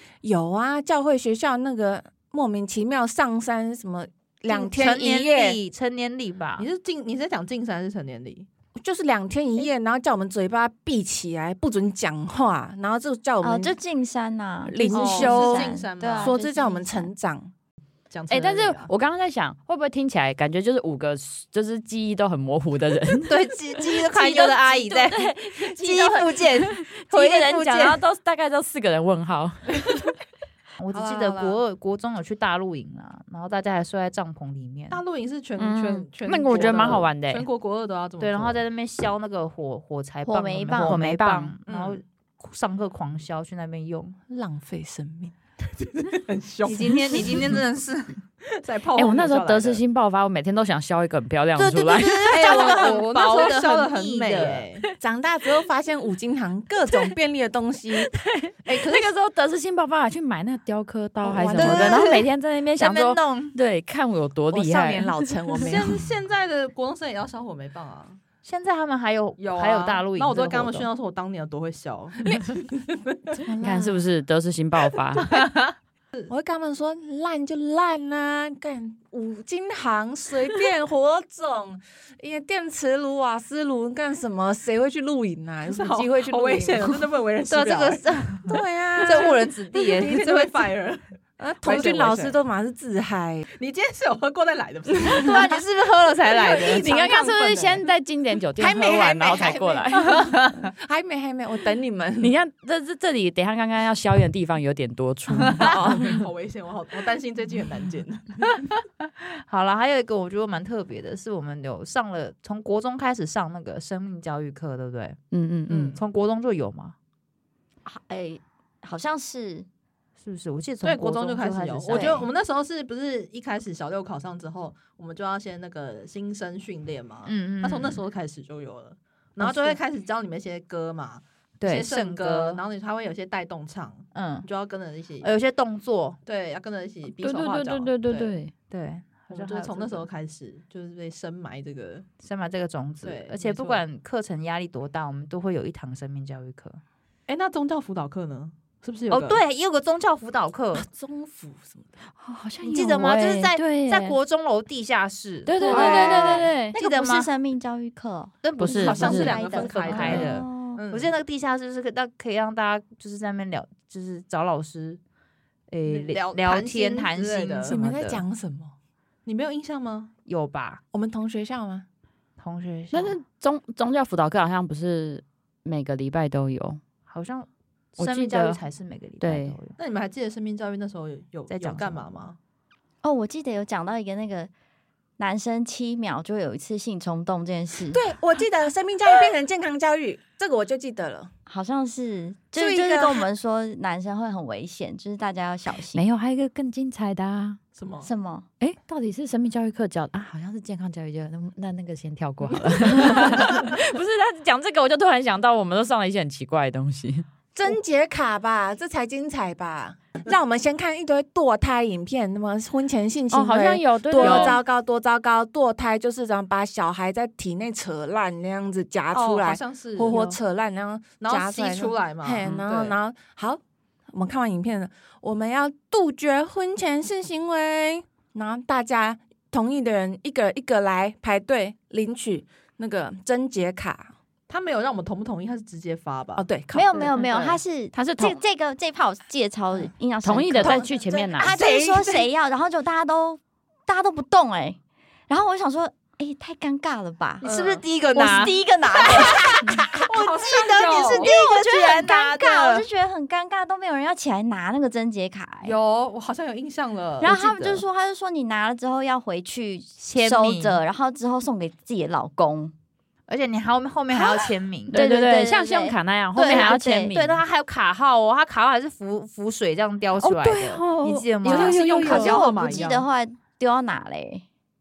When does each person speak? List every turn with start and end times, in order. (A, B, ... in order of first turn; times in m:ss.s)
0:00.2-0:05.6 A
0:04.5-0:06.7 B
0:06.6-0:08.5 C
0:08.8-0:13.8 A
0:13.4-0:17.1 D
0:14.7-0:17.5 A
0:14.9-0:16.4 C
0:18.1-0:18.9 C
0:18.3-0:23.9 E
0:23.2-0:28.0 B
0:24.1-0:26.2 D
0:26.6-0:30.1 E
0:30.8-0:35.0 B
0:30.9-0:31.6 C
0:34.9-0:38.6 C
0:35.6-0:37.5 E
0:36.5-0:37.1 B
0:38.2-0:44.2 B
0:40.2-0:41.0 D
0:40.8-0:41.5 E
0:41.7-0:42.0 C
0:44.3-0:45.3 A
0:45.8-0:47.6 C
0:46.6-0:48.2 B
0:48.5-0:49.8 C
0:49.0-0:52.9 E
0:51.6-0:54.7 B
0:52.3-0:54.8 C
0:55.0-0:58.1 A
0:58.1-1:05.6 E
1:01.2-1:02.2 A
1:01.5-1:03.6 B
1:04.5-1:06.0 A
1:05.6-1:08.2 C
1:08.4-1:10.9 B
1:09.4-1:13.4 C
1:13.4-1:14.1 A
1:13.6-1:15.4 E
1:16.3-1:26.2 A
1:25.7-1:28.0 C
1:26.0-1:26.9 B
1:27.5-1:30.6 B
1:28.5-1:29.4 A
1:29.0-1:31.0 C
1:31.4-1:33.5 A
1:31.6-1:32.4 C
1:33.6-1:35.6 C
1:35.1-1:36.9 B
1:36.4-1:37.8 C
1:36.4-1:37.5 A
1:36.6-1:40.5 E
1:38.6-1:42.4 A
1:40.2-1:40.6 B
1:42.2-1:45.9 E
1:45.4-1:45.7 B
1:45.6-1:46.2 A
1:45.6-1:48.5 C
1:48.7-1:55.2 B
1:55.3-1:56.0 E
1:55.7-1:56.0 C
1:55.9-1:57.0 B
1:57.9-1:59.7 D
2:00.2-2:02.3 B
2:00.8-2:15.3 C
2:01.9-2:02.2 D
2:07.3-2:08.0 B
2:09.4-2:09.8 B
2:11.6-2:12.6 B
2:14.1-2:14.5 B
2:15.2-2:16.2 B
2:16.3-2:18.4 C
2:17.1-2:18.5 E
2:18.7-2:20.1 B
2:19.3-2:22.1 C
2:22.2-2:26.8 B
2:23.0-2:23.8 C
2:27.3-2:29.4 C
2:29.1-2:30.9 B
2:30.8-2:31.9 A
2:32.2-2:34.2 E
2:32.7-2:36.2 B
2:35.5-2:36.8 E
2:35.7-2:36.5 A
2:35.7-2:40.8 D
2:36.7-2:37.3 B
2:38.4-2:45.0 B
2:38.6-2:40.3 E
2:38.6-2:41.1 C
2:45.7-2:48.2 B
2:45.9-2:47.8 C
2:47.7-2:48.7 A
2:49.3-2:50.1 C
2:50.3-2:50.8 B
2:50.9-2:51.9 A
2:52.4-2:53.2 B
2:52.9-2:56.8 E
2:57.1-2:59.8 B
2:58.0-2:58.6 E
2:59.2-2:59.6 E
2:59.8-3:02.4 C
3:01.5-3:02.1 B
3:03.0-3:04.5 D
3:05.2-3:08.0 D
3:07.9-3:11.3 A
3:11.5-3:16.0 D
3:12.6-3:13.3 A
3:15.9-3:17.6 E
3:17.8-3:18.1 C
3:18.0-3:18.5 D
3:18.6-3:27.2 E
3:22.6-3:23.3 C
3:27.6-3:43.6 A
3:33.3-3:34.6 E
3:34.2-3:34.6 B
3:39.1-3:40.4 C
3:41.2-3:43.0 C
3:44.1-3:54.1 A
3:54.5-3:56.5 C
3:56.4-3:57.2 A
3:56.7-4:04.8 D
3:57.9-3:58.4 E
4:00.2-4:01.6 E
4:00.6-4:02.3 A
4:05.3-4:07.4 D
4:07.4-4:07.8 C
4:07.4-4:12.9 B
4:08.2-4:09.4 D
4:09.1-4:09.9 A
4:09.9-4:11.3 C
4:10.9-4:15.8 D
4:15.6-4:17.4 C
4:17.2-4:22.7 D
4:17.3-4:17.7 B
4:20.0-4:20.8 B
4:23.3-4:25.1 B
4:24.1-4:24.4 D
4:24.9-4:27.4 E
4:24.9-4:27.2 D
4:26.4-4:32.4 B
4:30.3-4:32.1 E
4:30.6-4:33.0 C
4:31.4-4:34.4 D